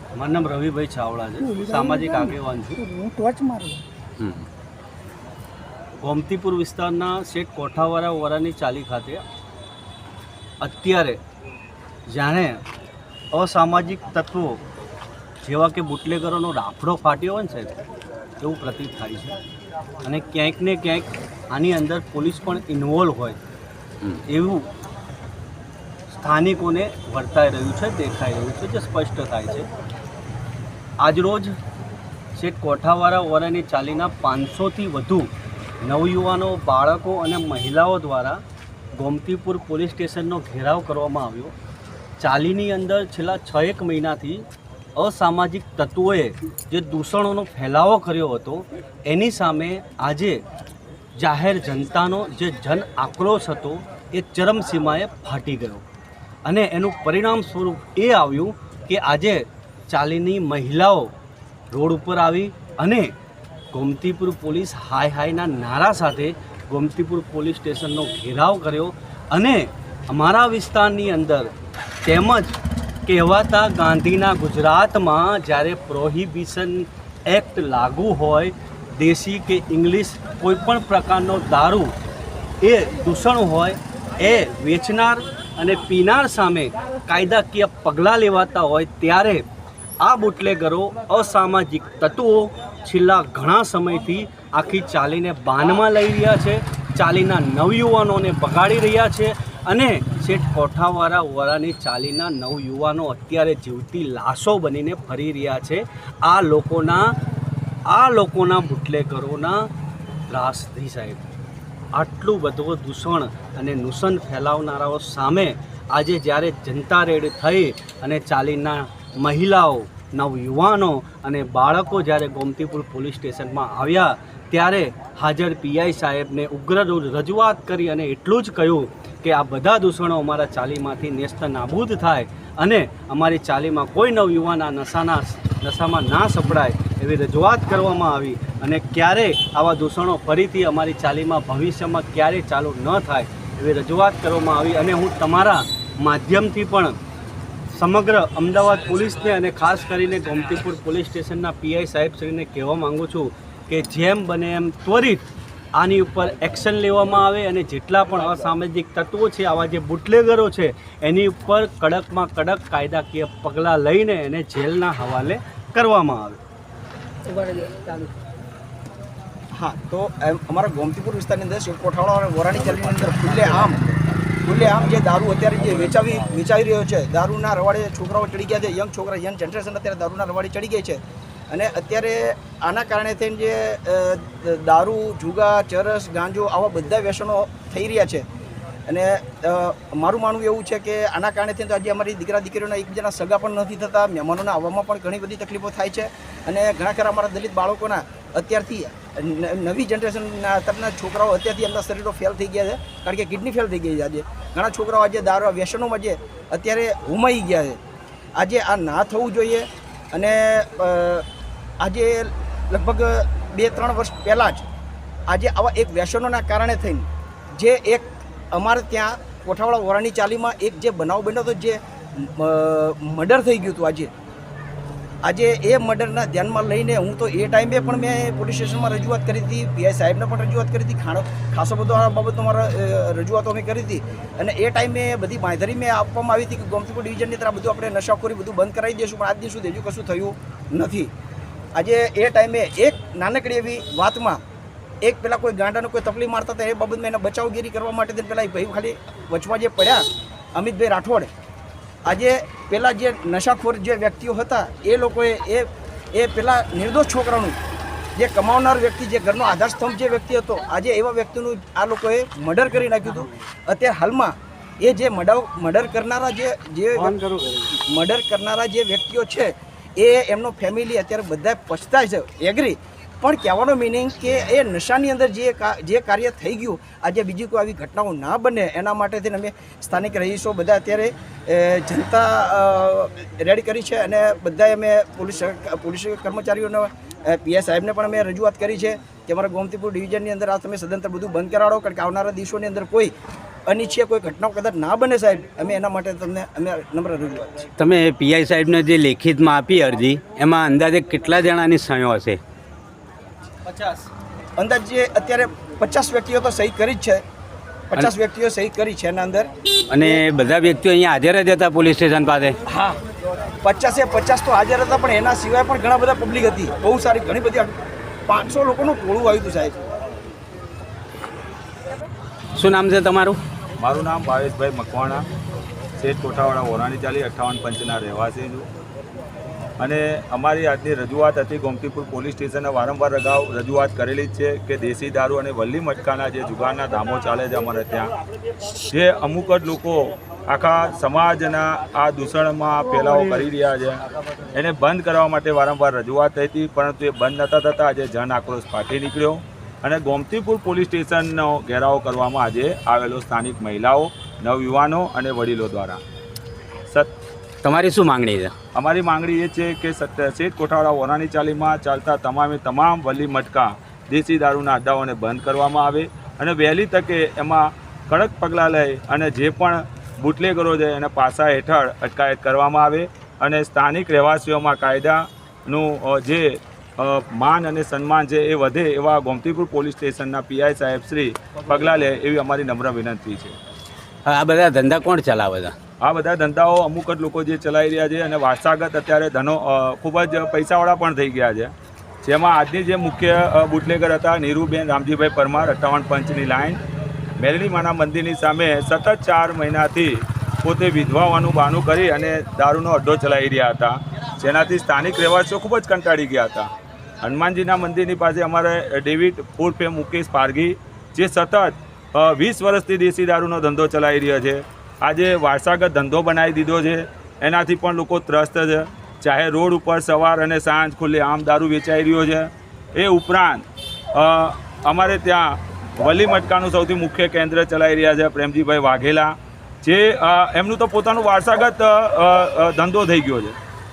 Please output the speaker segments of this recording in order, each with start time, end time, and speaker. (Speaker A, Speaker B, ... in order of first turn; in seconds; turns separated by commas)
Speaker A: 0.1-2.8, Speaker B: 1.4-3.8, Speaker C: 4.2-4.5, Speaker A: 6.0-9.2, Speaker A: 10.6-11.2, Speaker A: 12.1-12.6, Speaker A: 13.3-14.6, Speaker A: 15.4-17.8, Speaker A: 18.4-19.4, Speaker A: 20.0-23.4, Speaker A: 24.2-24.7, Speaker A: 26.1-29.7, Speaker A: 31.0-31.6, Speaker A: 32.4-35.3, Speaker A: 35.8-38.4, Speaker A: 38.9-41.5, Speaker A: 42.2-50.4, Speaker A: 51.1-55.8, Speaker A: 56.5-61.1, Speaker A: 61.7-63.1, Speaker A: 63.7-71.5, Speaker A: 72.0-81.9, Speaker A: 82.6-89.4, Speaker A: 90.0-107.1, Speaker A: 107.9-109.6, Speaker A: 110.3-111.2, Speaker A: 111.9-147.0, Speaker A: 147.7-166.4, Speaker B: 167.2-168.1, Speaker D: 169.6-173.9, Speaker D: 174.4-188.2, Speaker D: 188.9-207.8, Speaker D: 208.4-211.2, Speaker D: 211.8-214.7, Speaker D: 215.3-224.1, Speaker D: 225.2-241.1, Speaker D: 241.8-244.4, Speaker D: 245.0-250.0, Speaker D: 250.5-251.3, Speaker D: 252.1-257.6, Speaker D: 258.2-293.1, Speaker A: 267.0-267.7, Speaker D: 293.7-297.7, Speaker C: 297.8-302.4, Speaker A: 303.6-304.1, Speaker D: 304.6-307.2, Speaker D: 307.9-309.5, Speaker C: 309.9-312.6, Speaker D: 312.7-313.0, Speaker D: 313.6-317.7, Speaker D: 318.3-319.8, Speaker C: 322.5-323.4, Speaker E: 323.8-325.2, Speaker E: 326.0-328.7, Speaker E: 329.8-338.1, Speaker E: 338.6-344.0, Speaker E: 344.5-356.0, Speaker C: 357.6-358.5, Speaker E: 358.7-383.6, Speaker C: 384.2-385.7, Speaker E: 386.0-391.7, Speaker E: 392.2-396.8, Speaker E: 397.4-406.7, Speaker E: 407.2-433.6